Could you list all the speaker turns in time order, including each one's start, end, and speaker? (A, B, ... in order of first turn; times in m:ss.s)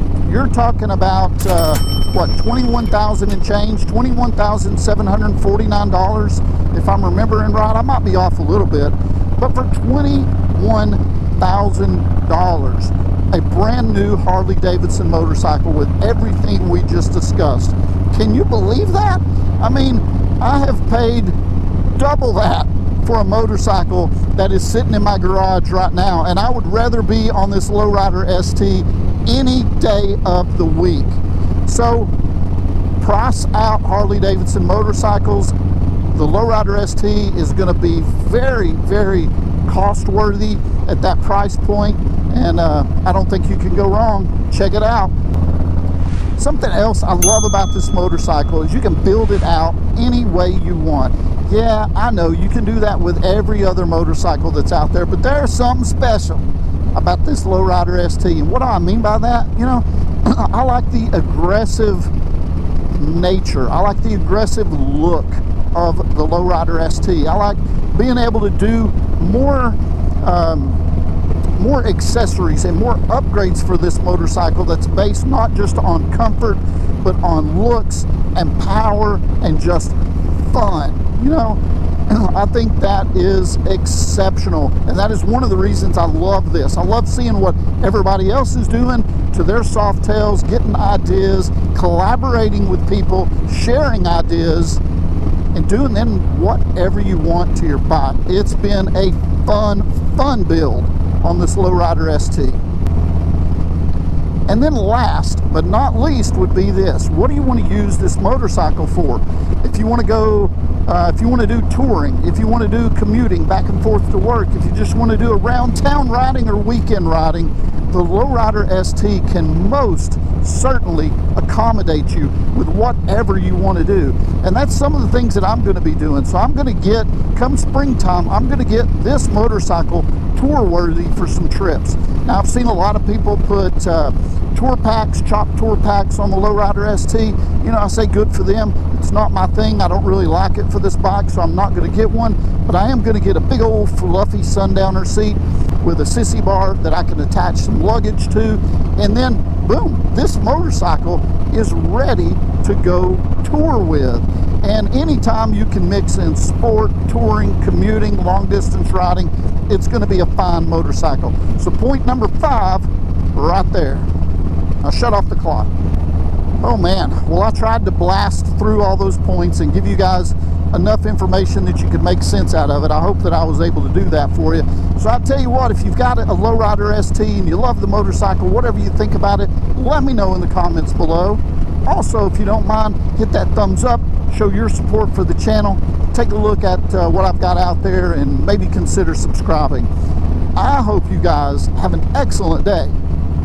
0:00.2-0:21.4 A
0:21.9-0:32.1 A
0:33.0-0:35.5 A
0:36.1-0:45.1 A
0:46.4-1:02.1 A
1:02.9-1:10.8 A
1:11.5-1:20.0 A
1:20.5-1:34.8 A
1:35.5-1:42.6 A
1:44.5-2:44.1 A
2:44.8-2:45.7 A
2:46.6-3:09.9 A
3:10.5-3:13.0 A